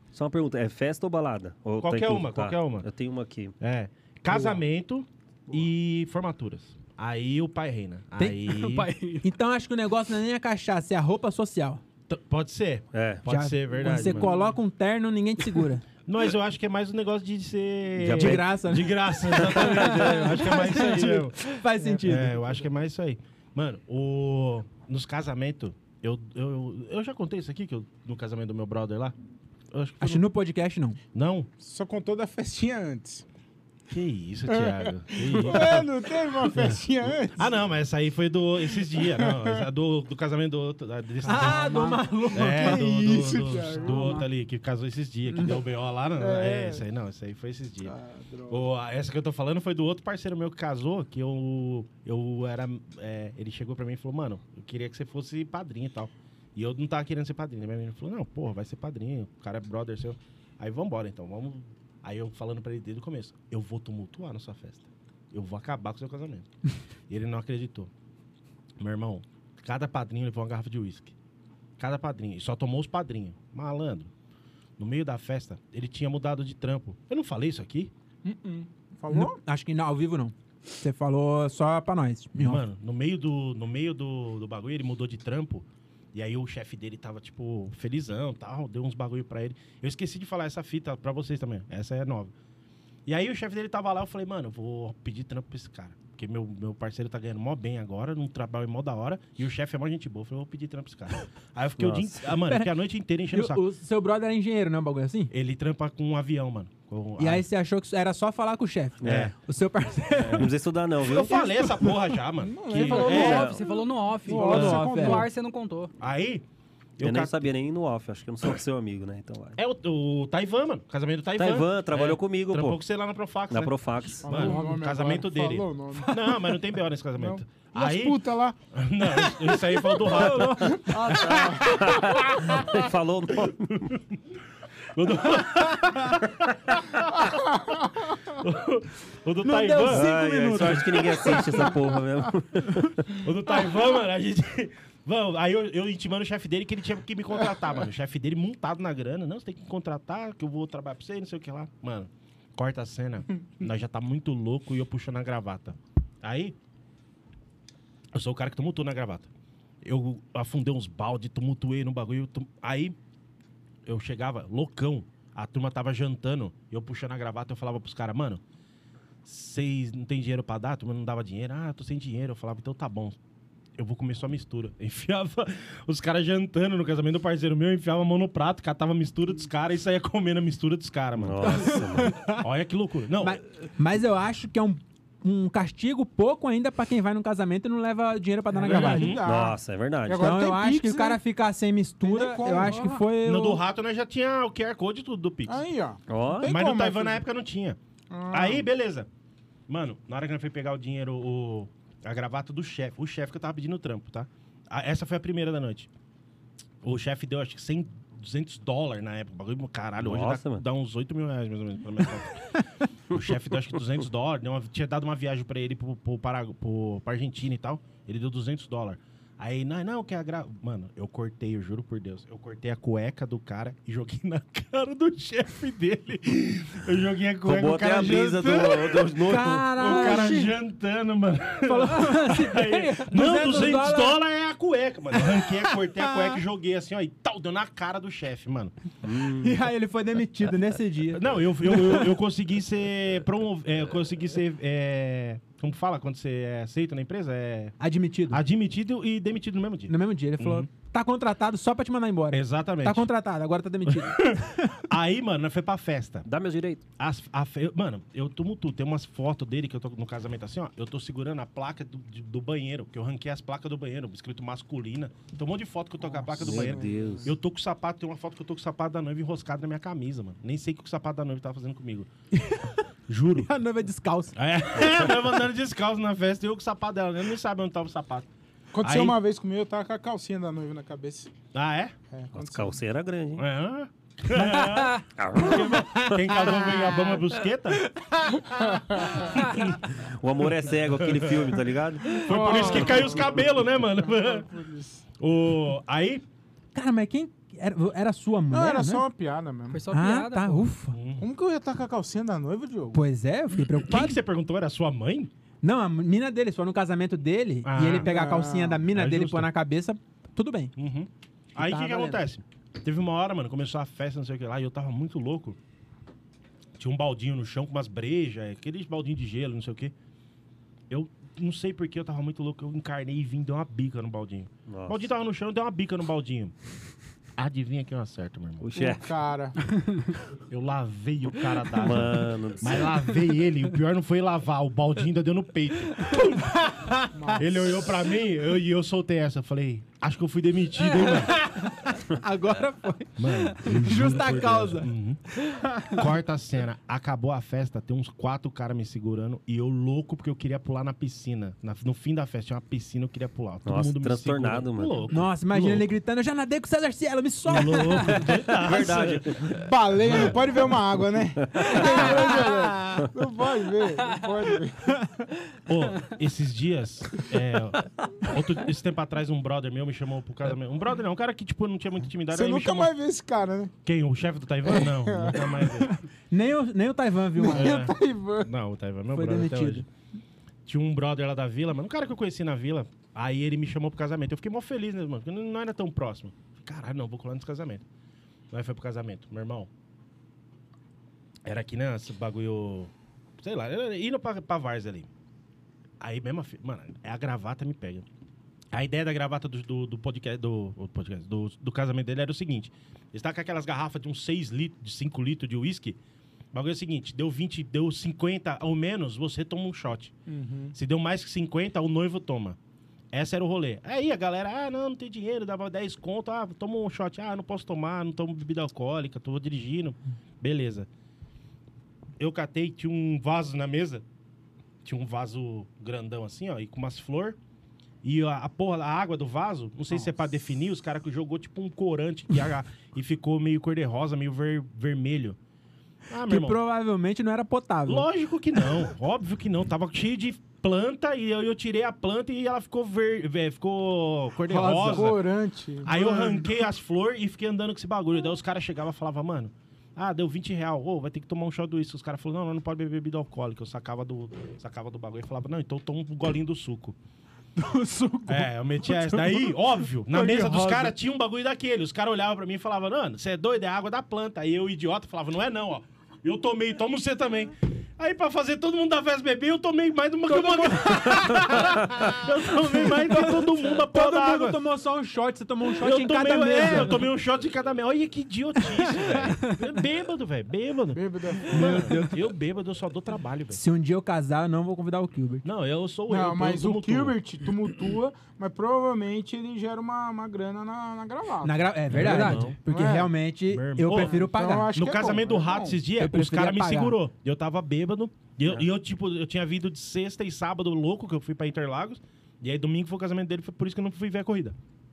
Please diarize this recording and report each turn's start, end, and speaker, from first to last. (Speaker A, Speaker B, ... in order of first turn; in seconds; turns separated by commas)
Speaker A: 0.1-3.5, Speaker B: 1.8-2.9, Speaker B: 3.6-8.9, Speaker C: 4.3-4.6, Speaker D: 8.5-9.3, Speaker C: 9.2-11.8, Speaker B: 12.1-14.3, Speaker A: 12.9-13.2, Speaker C: 13.2-15.8, Speaker B: 16.1-29.1, Speaker A: 18.0-18.5, Speaker C: 18.2-22.6, Speaker A: 19.4-20.0, Speaker B: 29.7-30.2, Speaker C: 30.0-31.0, Speaker B: 31.1-31.5, Speaker E: 31.6-33.2, Speaker B: 33.9-35.9, Speaker E: 34.5-37.5, Speaker B: 36.4-36.8, Speaker B: 37.3-48.0, Speaker E: 39.0-39.6, Speaker C: 41.2-44.2, Speaker E: 41.2-44.2, Speaker C: 45.3-45.6, Speaker E: 46.2-46.9, Speaker E: 47.8-48.6, Speaker B: 48.5-66.5, Speaker B: 67.1-67.9, Speaker B: 68.8-71.1, Speaker B: 71.8-74.1, Speaker B: 74.8-77.9, Speaker E: 78.2-79.4, Speaker C: 79.1-82.6, Speaker B: 82.4-92.3, Speaker B: 93.0-103.6, Speaker A: 101.8-102.2, Speaker C: 102.3-102.8, Speaker C: 103.3-105.3, Speaker B: 105.3-107.4, Speaker C: 107.2-110.5, Speaker A: 109.0-109.3, Speaker B: 109.0-109.3, Speaker B: 110.1-113.5, Speaker A: 110.3-111.7, Speaker E: 112.4-113.6, Speaker D: 112.8-115.9, Speaker A: 113.1-113.7, Speaker E: 114.2-115.2, Speaker C: 114.2-115.3, Speaker B: 114.5-115.2, Speaker B: 116.0-116.4, Speaker B: 117.0-117.4, Speaker A: 117.0-119.6, Speaker B: 119.6-132.8, Speaker A: 121.4-122.8, Speaker A: 123.5-124.5, Speaker E: 124.2-126.5, Speaker D: 124.4-124.8, Speaker E: 127.2-128.6, Speaker E: 129.2-132.2, Speaker C: 130.0-131.0, Speaker A: 131.5-133.9, Speaker B: 133.4-134.2, Speaker B: 134.9-137.4, Speaker E: 137.2-138.0, Speaker B: 138.3-140.1, Speaker C: 139.4-141.7, Speaker A: 139.9-143.2, Speaker E: 140.4-141.7, Speaker B: 143.2-156.5, Speaker B: 158.1-159.3, Speaker B: 159.8-162.9, Speaker B: 163.8-168.4, Speaker B: 169.2-173.2, Speaker B: 173.8-183.4, Speaker A: 181.2-182.2, Speaker C: 181.4-182.4, Speaker C: 183.2-189.2, Speaker E: 188.5-191.2, Speaker B: 188.6-189.2, Speaker A: 189.2-190.4, Speaker C: 190.2-193.6, Speaker E: 192.0-193.0, Speaker B: 193.2-195.6, Speaker E: 195.5-197.2, Speaker A: 196.1-196.5, Speaker B: 196.4-197.8, Speaker E: 198.1-198.7, Speaker B: 198.3-199.1, Speaker B: 199.7-205.9, Speaker B: 206.8-212.4, Speaker A: 210.0-210.6, Speaker B: 213.1-238.7, Speaker A: 227.4-229.7, Speaker C: 229.2-230.6, Speaker C: 231.6-234.2, Speaker D: 232.1-233.1, Speaker C: 235.2-236.4, Speaker A: 239.0-239.6, Speaker C: 239.3-242.2, Speaker B: 241.1-247.8, Speaker C: 247.8-248.4, Speaker B: 248.3-250.7, Speaker C: 249.9-254.8, Speaker B: 252.3-253.1, Speaker B: 253.9-256.2, Speaker A: 256.2-256.8, Speaker B: 257.0-272.1, Speaker E: 266.0-267.3, Speaker A: 266.4-267.3, Speaker C: 272.3-272.8, Speaker B: 273.1-273.5, Speaker C: 273.4-274.3, Speaker B: 274.3-278.3, Speaker E: 278.7-281.3, Speaker B: 278.8-279.2, Speaker B: 281.5-281.9, Speaker E: 282.1-282.8, Speaker A: 282.3-283.4, Speaker B: 283.4-289.9, Speaker D: 284.4-285.0, Speaker A: 285.2-286.4, Speaker E: 288.4-289.3, Speaker D: 289.3-289.7, Speaker A: 289.3-293.0, Speaker B: 290.9-294.5, Speaker E: 292.2-295.0, Speaker B: 295.2-296.2, Speaker C: 296.7-299.1, Speaker E: 298.5-299.8, Speaker D: 299.7-300.7, Speaker C: 299.9-300.9, Speaker B: 300.9-301.2, Speaker E: 301.2-303.0, Speaker C: 302.9-304.2, Speaker B: 303.8-305.3, Speaker C: 305.6-310.7, Speaker B: 307.6-308.1, Speaker E: 308.0-308.9, Speaker B: 308.9-309.5, Speaker B: 310.8-315.6, Speaker C: 311.6-312.2, Speaker B: 316.8-319.9, Speaker B: 320.9-326.5, Speaker A: 324.7-325.1, Speaker B: 327.4-328.7, Speaker A: 328.6-329.0, Speaker E: 328.7-329.6, Speaker D: 329.7-330.1, Speaker B: 330.5-336.6, Speaker A: 331.8-333.0, Speaker C: 336.4-337.4, Speaker E: 337.1-337.5, Speaker B: 337.4-341.4, Speaker C: 340.9-346.1, Speaker B: 343.2-345.2, Speaker B: 345.8-355.9, Speaker A: 353.6-355.0, Speaker C: 355.1-358.3, Speaker B: 357.5-360.5, Speaker A: 358.5-359.5, Speaker E: 359.5-365.1, Speaker A: 361.6-361.8, Speaker C: 362.1-362.6, Speaker B: 365.7-372.9, Speaker E: 372.3-373.7, Speaker B: 373.8-375.9, Speaker E: 374.7-375.9, Speaker C: 376.3-377.9, Speaker E: 377.4-378.5, Speaker B: 377.5-379.8, Speaker C: 379.1-379.8, Speaker B: 380.6-387.8, Speaker B: 388.5-389.7, Speaker B: 391.4-395.1, Speaker B: 396.0-398.1, Speaker B: 398.7-406.0, Speaker B: 406.5-410.1, Speaker E: 410.3-410.7, Speaker B: 410.7-412.6, Speaker B: 413.1-420.9, Speaker B: 422.2-424.0, Speaker B: 424.8-427.4, Speaker B: 428.0-435.4, Speaker B: 436.1-436.6, Speaker C: 436.2-438.1, Speaker B: 437.9-445.2, Speaker E: 444.5-446.5, Speaker B: 445.8-456.9, Speaker C: 457.6-460.9, Speaker B: 458.3-474.6, Speaker C: 470.3-477.1, Speaker B: 475.8-483.6, Speaker C: 478.6-479.2, Speaker E: 480.9-481.9, Speaker C: 481.4-482.3, Speaker C: 483.5-485.4, Speaker B: 485.4-487.2, Speaker E: 486.1-492.0, Speaker C: 491.4-494.7, Speaker B: 491.9-492.4, Speaker D: 492.0-492.6, Speaker A: 492.1-492.6, Speaker E: 492.6-493.1, Speaker B: 493.5-504.5, Speaker E: 493.9-495.8, Speaker C: 496.0-497.0